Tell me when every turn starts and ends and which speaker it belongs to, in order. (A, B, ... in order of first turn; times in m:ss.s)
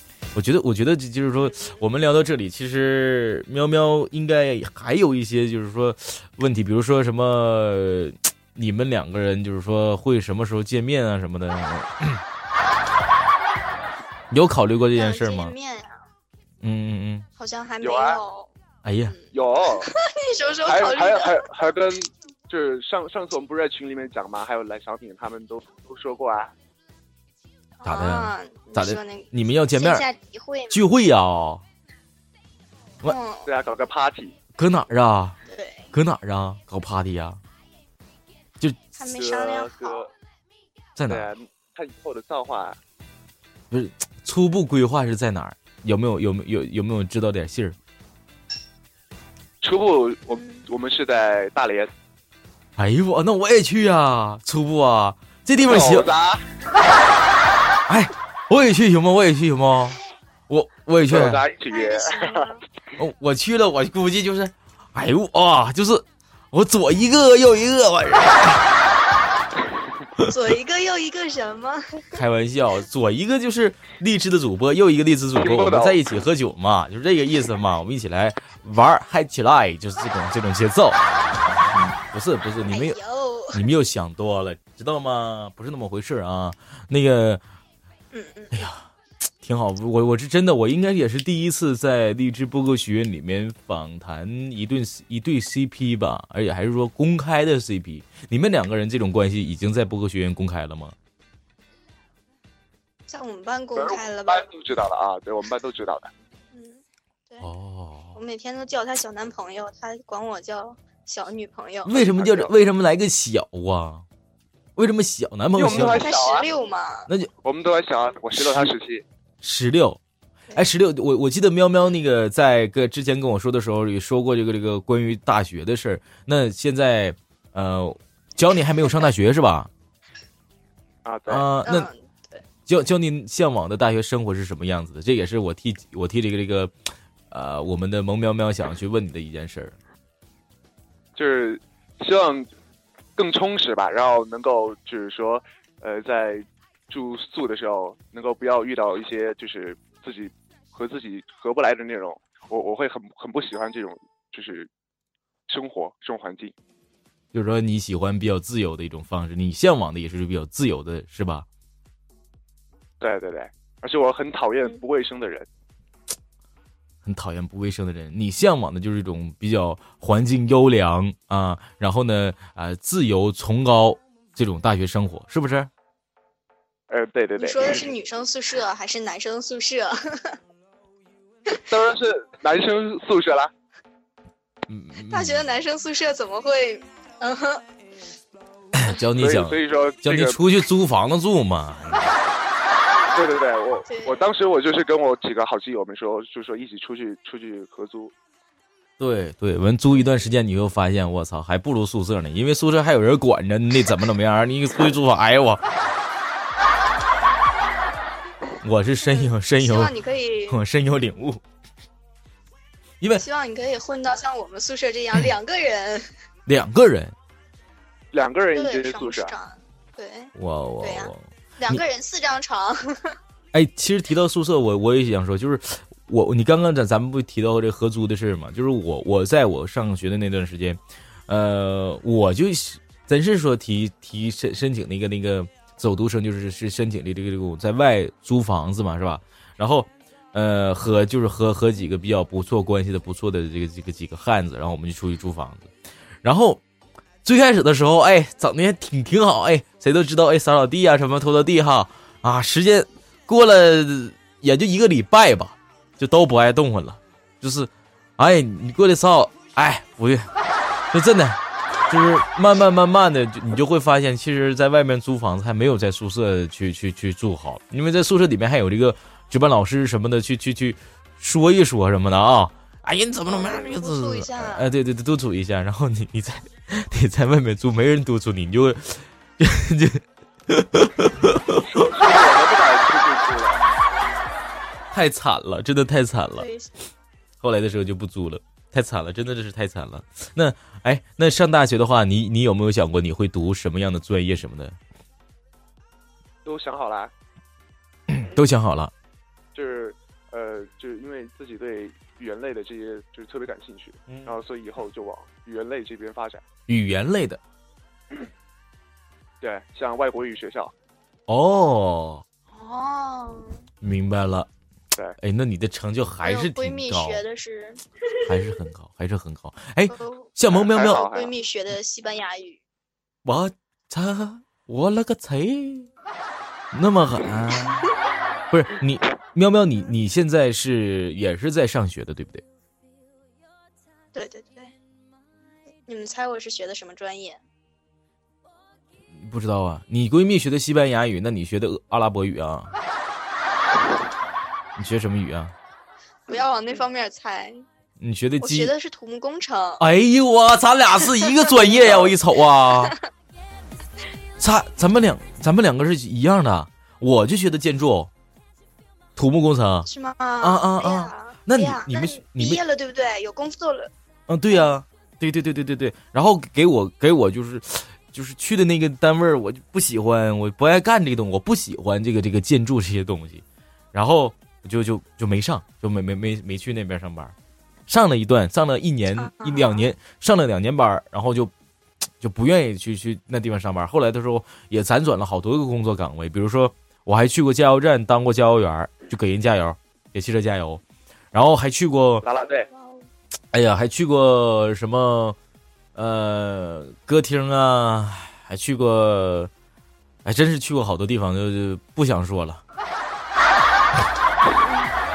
0:00.4-0:12.2 A
0:14.3-0:15.5 A
0:14.9-0:16.0 B
0:16.6-0:17.3 A
0:17.4-0:18.5 B
0:17.8-0:18.2 C
0:18.8-0:19.1 A
0:19.1-0:21.5 B
0:19.3-0:19.9 C
0:20.7-0:26.5 C
0:27.8-0:30.8 B
0:27.8-0:30.1 A
0:30.7-0:31.6 A
0:33.0-0:33.5 B
0:33.5-0:34.4 C
0:34.6-0:35.4 A
0:35.5-0:35.9 B
0:35.9-0:37.4 A
0:39.0-0:40.1 B
0:39.0-0:40.1 C
0:41.0-0:41.3 A
0:41.1-0:42.8 C
0:43.7-0:47.8 A
0:49.6-0:51.9 C
0:50.3-0:50.6 B
0:52.8-0:56.1 A
0:55.6-0:56.4 C
0:57.9-1:01.4 A
1:01.1-1:02.5 C
1:01.7-1:02.6 B
1:03.0-1:08.7 A
1:10.2-1:12.2 B
1:12.1-1:21.0 A
1:15.4-1:16.0 C
1:21.6-1:23.0 A
1:22.7-1:23.6 B
1:23.5-1:27.4 A
1:28.1-1:28.7 B
1:28.5-1:28.9 A
1:29.4-1:40.9 A
1:43.1-1:44.5 B
1:43.8-1:46.1 C
1:46.5-1:47.5 B
1:47.4-1:48.2 A
1:48.2-1:52.0 B
1:51.9-1:54.0 A
1:51.9-1:52.5 C
1:54.8-1:56.1 A
1:55.5-1:56.5 C
1:55.9-1:57.1 B
1:57.4-1:59.0 C
1:58.4-1:58.7 A
1:59.4-2:00.0 A
2:00.5-2:09.7 A
2:11.0-2:11.5 C
2:11.3-2:11.9 A
2:11.6-2:12.4 B
2:12.7-2:16.7 A
2:17.3-2:19.8 A
2:21.2-2:22.5 C
2:23.2-2:34.7 C
2:35.5-2:36.5 C
2:37.3-2:41.5 A
2:43.0-2:45.5 C
2:47.0-2:55.7 A
2:56.9-2:57.9 C
2:57.4-3:00.4 B
3:01.7-3:03.5 C
3:04.7-3:05.4 A
3:05.0-3:07.6 B
3:08.7-3:12.1 A
3:09.2-3:10.4 C
3:13.1-3:18.1 C
3:13.9-3:14.3 B
3:19.0-3:25.6 A
3:28.6-3:30.0 A
3:29.0-3:30.6 B
3:30.5-3:31.4 A
3:33.2-3:36.1 B
3:36.5-3:37.2 A
3:38.1-3:39.3 C
3:38.6-3:43.1 B
3:40.4-3:41.8 A
3:43.5-4:05.7 A
4:06.2-4:06.6 A
4:07.2-4:20.3 A
4:20.9-4:41.8 A
4:33.3-4:34.7 B
4:41.6-4:43.6 C
4:44.9-4:46.5 A
4:46.4-4:46.7 B
4:47.4-4:54.8 A
4:56.4-4:57.1 C
4:58.1-4:58.9 A
4:59.6-5:06.4 C
5:04.1-5:04.4 A
5:06.7-5:07.4 A
5:09.4-5:10.7 C
5:11.3-5:12.2 A
5:12.5-5:13.6 B
5:13.8-5:14.5 A
5:15.2-5:17.2 A
5:16.2-5:18.6 B
5:18.3-5:21.0 A
5:19.9-5:22.6 B
5:20.5-5:21.3 C
5:23.2-5:25.9 A
5:26.7-5:27.9 A
5:28.5-5:32.4 A
5:34.1-5:34.7 B
5:35.9-5:37.4 B
5:39.1-5:42.7 A
5:44.8-5:45.5 A
5:46.3-5:47.6 B
5:48.0-5:48.7 A
5:48.4-5:49.8 B
5:49.8-5:53.0 A
5:54.4-5:58.1 A
5:59.2-5:59.9 A
5:59.8-6:03.9 B
6:00.4-6:02.6 A
6:04.3-6:17.3 A
6:04.5-6:04.8 B
6:17.9-6:21.5 A
6:19.2-6:19.9 B
6:22.2-6:30.8 A
6:31.3-6:32.2 A
6:32.2-6:32.7 C
6:32.7-6:33.0 B
6:33.5-6:35.4 A
6:36.0-6:39.5 A
6:40.2-6:42.6 A
6:44.6-6:44.9 B